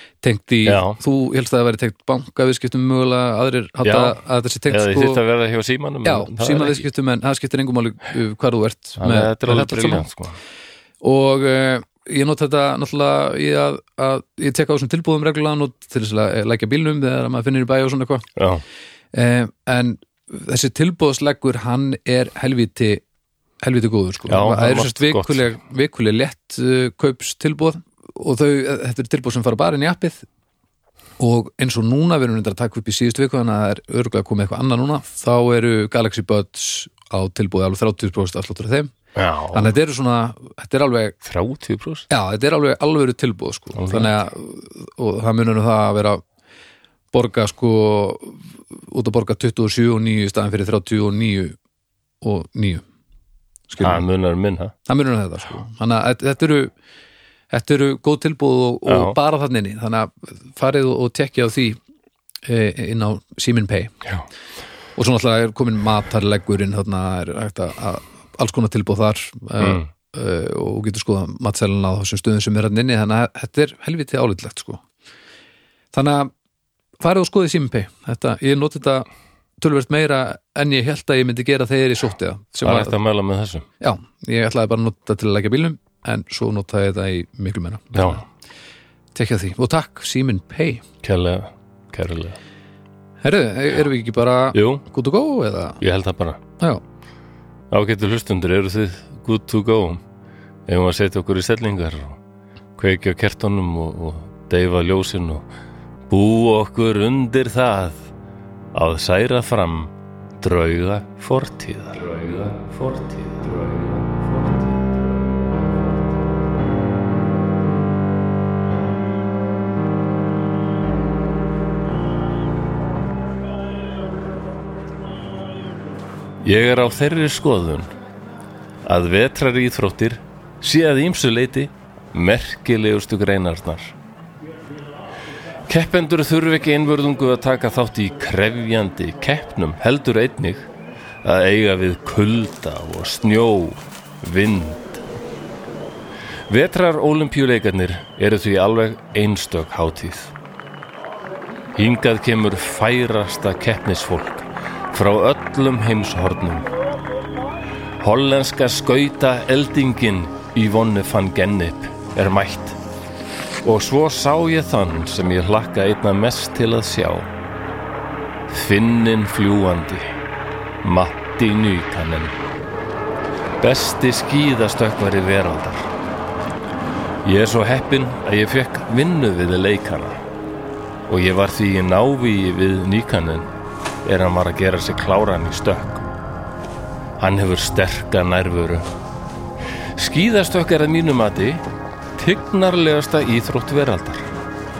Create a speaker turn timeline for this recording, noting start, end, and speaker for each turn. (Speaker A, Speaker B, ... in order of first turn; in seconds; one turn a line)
Speaker A: 0.2-5.2
Speaker B: 0.6-1.0
Speaker B: 3.8-4.2
Speaker B: 4.7-6.8
Speaker A: 6.0-10.1
Speaker B: 9.0-10.4
Speaker A: 11.0-18.2
Speaker B: 18.4-18.6
Speaker A: 19.1-23.0
Speaker A: 23.6-30.2
Speaker B: 24.3-25.5
Speaker A: 31.2-38.9
Speaker B: 39.1-39.8
Speaker A: 39.5-41.1
Speaker B: 41.2-42.1
Speaker A: 42.1-46.2
Speaker B: 43.7-44.2
Speaker A: 47.1-51.6
Speaker A: 52.2-52.8
Speaker A: 53.7-54.0
Speaker B: 53.8-54.7
Speaker A: 54.9-56.7
Speaker A: 57.5-61.8
Speaker B: 58.9-59.1
Speaker A: 62.4-63.9
Speaker A: 65.0-74.8
Speaker B: 69.6-69.8
Speaker A: 75.9-76.3
Speaker A: 77.0-79.0
Speaker A: 79.6-82.9
Speaker B: 82.6-83.7
Speaker A: 83.8-88.2
Speaker B: 87.9-88.2
Speaker A: 89.1-90.8
Speaker B: 91.0-92.4
Speaker A: 93.2-95.8
Speaker B: 94.5-94.8
Speaker B: 95.8-96.4
Speaker B: 97.7-100.0
Speaker B: 100.7-102.2
Speaker B: 102.8-105.5
Speaker B: 106.1-108.1
Speaker B: 108.7-116.4
Speaker B: 126.4-127.9
Speaker B: 128.8-133.9
Speaker B: 135.7-140.7
Speaker B: 141.2-145.1
Speaker B: 146.5-150.3
Speaker B: 151.8-156.7
Speaker B: 158.0-162.8
Speaker B: 163.6-167.3
Speaker B: 168.5-170.1
Speaker B: 170.8-172.4
Speaker B: 173.6-175.9
Speaker B: 177.2-180.2
Speaker B: 181.1-183.5
Speaker B: 184.0-186.1
Speaker B: 187.2-188.9
Speaker B: 189.9-191.6
Speaker B: 192.2-194.3